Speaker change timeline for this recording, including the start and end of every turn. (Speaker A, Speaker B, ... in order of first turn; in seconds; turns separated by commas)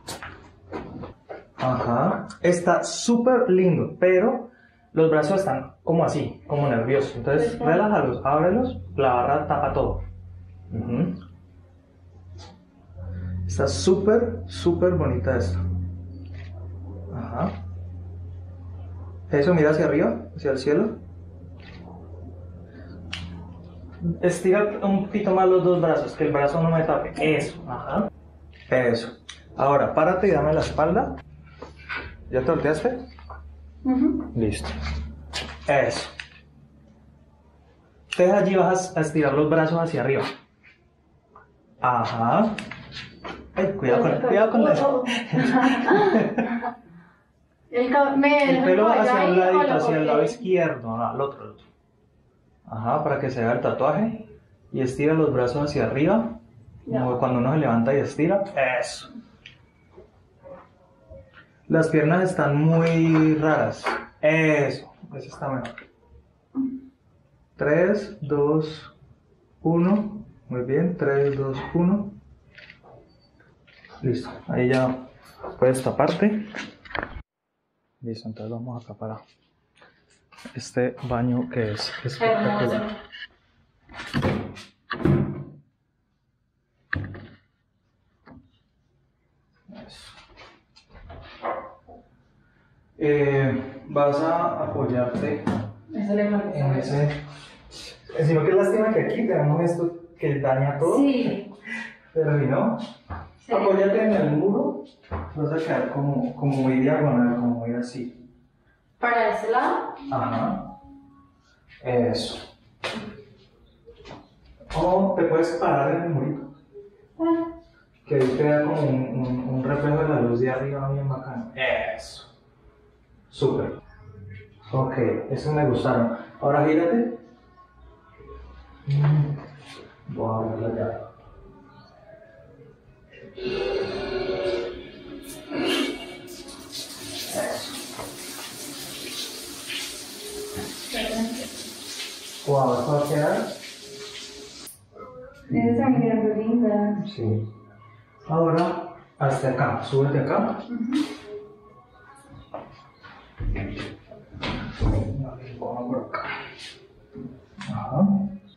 Speaker A: 1.6-10.0, Speaker B: 7.3-7.9, Speaker A: 10.7-11.2, Speaker A: 13.5-15.6, Speaker A: 17.1-17.6, Speaker A: 19.3-21.0, Speaker A: 24.0-28.1, Speaker A: 28.7-31.1, Speaker A: 32.3-33.0, Speaker B: 33.8-34.3, Speaker A: 34.3-34.8, Speaker A: 35.7-36.1, Speaker A: 38.1-40.3, Speaker A: 41.8-42.5, Speaker A: 43.5-46.6, Speaker B: 43.9-46.4, Speaker B: 47.7-50.4, Speaker A: 48.5-51.7, Speaker A: 52.7-59.1, Speaker A: 61.7-65.7, Speaker A: 67.6-68.9, Speaker A: 69.6-72.2, Speaker A: 74.0-76.5, Speaker A: 78.0-79.2, Speaker A: 80.5-82.9, Speaker B: 82.2-83.0, Speaker A: 89.7-90.2, Speaker A: 93.0-95.5, Speaker B: 95.9-97.0, Speaker A: 96.5-97.2, Speaker A: 98.1-101.3, Speaker B: 100.8-101.5, Speaker A: 102.1-102.8, Speaker B: 103.4-104.2, Speaker A: 103.5-108.2, Speaker B: 109.0-110.0, Speaker A: 110.1-110.7, Speaker A: 111.8-112.5, Speaker A: 114.7-116.5, Speaker B: 117.2-117.5, Speaker A: 118.1-122.3, Speaker A: 123.3-123.8, Speaker A: 124.7-127.2, Speaker A: 128.9-129.4, Speaker A: 130.1-131.0, Speaker A: 137.3-137.7, Speaker B: 140.8-141.5, Speaker A: 142.4-143.6, Speaker A: 145.5-146.1, Speaker B: 145.5-147.0, Speaker A: 147.0-147.5, Speaker A: 148.3-150.6, Speaker B: 150.7-151.1, Speaker A: 155.0-156.3, Speaker A: 157.7-158.4